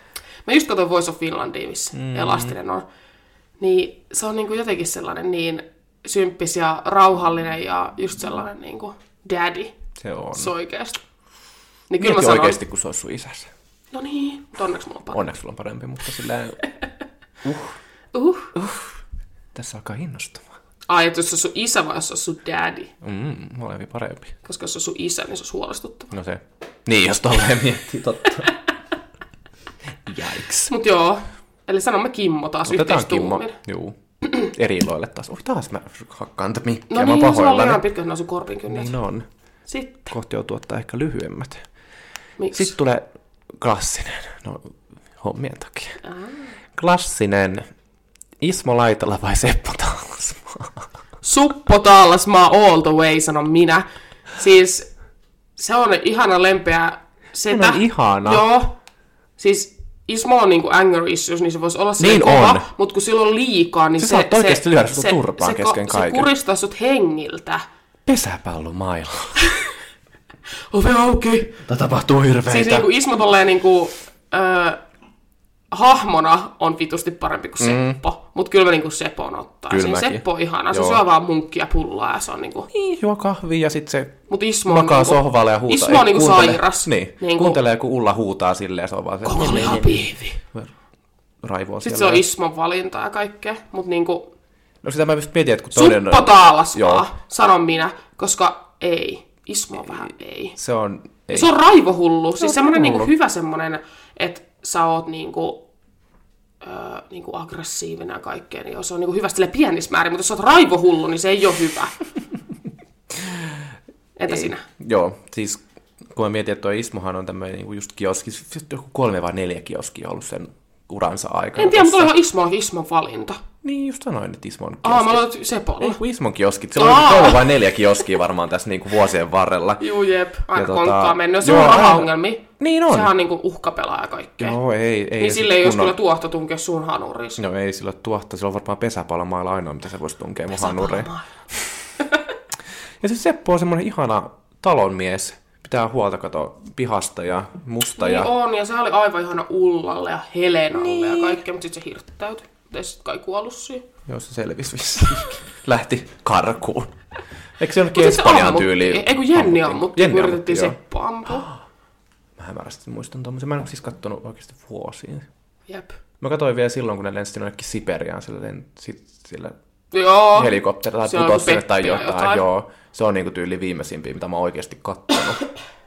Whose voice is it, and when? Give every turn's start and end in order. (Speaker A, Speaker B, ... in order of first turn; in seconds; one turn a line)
Speaker A: 0.4-2.9
Speaker B: 1.9-2.5
Speaker A: 3.6-9.7
Speaker B: 10.0-10.5
Speaker A: 10.3-11.0
Speaker A: 11.9-12.6
Speaker B: 12.0-13.5
Speaker A: 13.9-15.2
Speaker B: 15.1-16.6
Speaker B: 17.4-17.8
Speaker A: 18.1-18.6
Speaker B: 18.5-19.0
Speaker B: 19.5-20.5
Speaker A: 20.9-22.9
Speaker B: 23.0-24.4
Speaker A: 24.4-26.1
Speaker B: 26.1-28.5
Speaker B: 30.1-30.7
Speaker A: 30.7-33.6
Speaker B: 32.6-37.8
Speaker A: 36.9-38.9
Speaker B: 38.7-39.3
Speaker A: 39.7-40.1
Speaker B: 40.1-41.6
Speaker A: 42.4-42.7
Speaker B: 42.5-46.0
Speaker A: 46.0-46.5
Speaker B: 46.8-47.7
Speaker B: 48.4-50.9
Speaker A: 51.2-54.9
Speaker A: 55.6-58.7
Speaker B: 57.5-58.4
Speaker A: 59.4-67.6
Speaker B: 62.0-62.6
Speaker B: 64.0-66.3
Speaker B: 68.0-69.4
Speaker A: 70.7-71.6
Speaker B: 71.7-72.9
Speaker A: 72.5-74.8
Speaker A: 75.7-82.7
Speaker B: 77.6-78.0
Speaker B: 79.7-81.0
Speaker B: 82.7-90.7
Speaker A: 84.3-87.6
Speaker A: 89.2-90.4
Speaker B: 91.4-92.2
Speaker A: 91.8-94.3
Speaker B: 94.8-97.1
Speaker A: 95.7-100.6
Speaker B: 100.5-101.5
Speaker A: 101.3-105.6
Speaker B: 102.4-103.1
Speaker A: 106.6-111.9
Speaker B: 113.1-113.6
Speaker A: 114.2-114.6
Speaker B: 114.3-122.1
Speaker A: 121.6-123.4
Speaker B: 123.6-125.2
Speaker A: 124.8-126.0
Speaker B: 125.8-129.8
Speaker A: 126.8-127.5
Speaker A: 129.8-134.6
Speaker B: 130.5-133.1
Speaker B: 134.4-136.0
Speaker A: 135.2-137.4
Speaker B: 137.4-141.1
Speaker A: 140.5-141.3
Speaker B: 143.0-148.3
Speaker A: 148.0-153.8
Speaker B: 150.7-151.4
Speaker B: 154.1-157.0
Speaker B: 157.6-160.8
Speaker A: 157.9-161.5
Speaker B: 161.3-161.6
Speaker B: 162.4-165.3
Speaker A: 165.7-165.9
Speaker B: 166.2-169.6
Speaker A: 169.9-172.4
Speaker B: 170.3-175.4